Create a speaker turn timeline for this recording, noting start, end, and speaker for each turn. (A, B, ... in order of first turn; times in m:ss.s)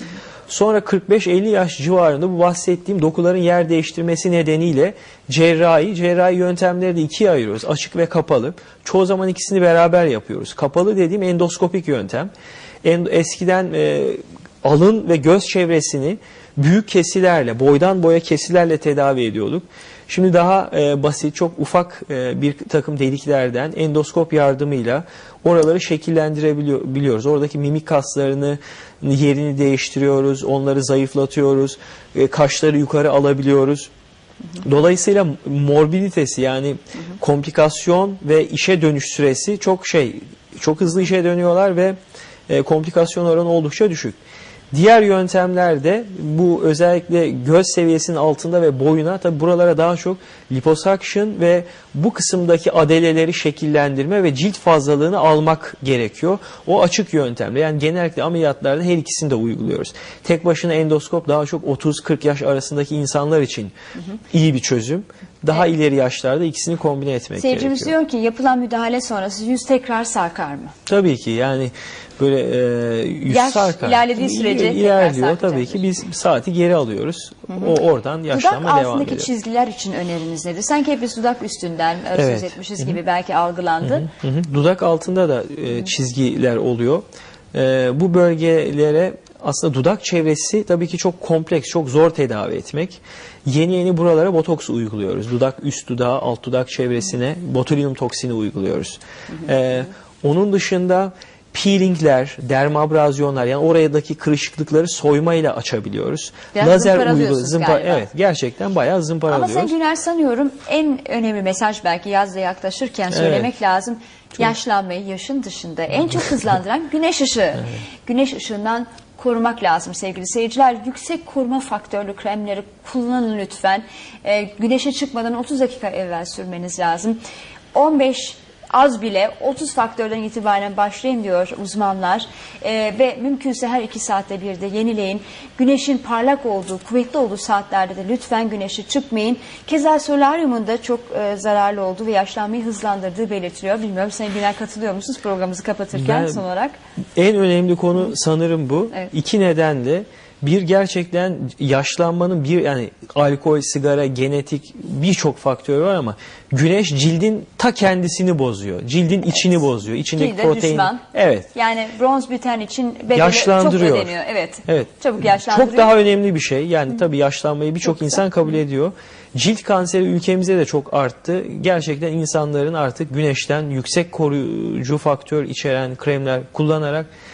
0:00.5-0:12.3 A
0:12.8-0:33.9 A
0:34.6-0:42.0 A
0:42.5-0:44.2 A
0:44.7-1:03.7 A
1:04.3-1:07.9 A
1:07.4-1:10.7 B
1:10.9-1:19.3 A
1:13.3-1:15.9 B
1:17.5-1:17.8 B
1:18.3-1:24.1 B
1:22.2-1:23.0 A
1:23.8-1:49.7 A
1:46.5-1:48.0 B
1:49.3-2:07.2 B
1:53.1-1:53.5 A
2:07.7-2:26.8 B
2:25.9-2:26.4 A
2:27.2-2:41.5 A
2:40.1-2:41.0 B
2:41.5-2:46.0 B
2:43.1-2:44.2 A
2:44.7-2:57.1 A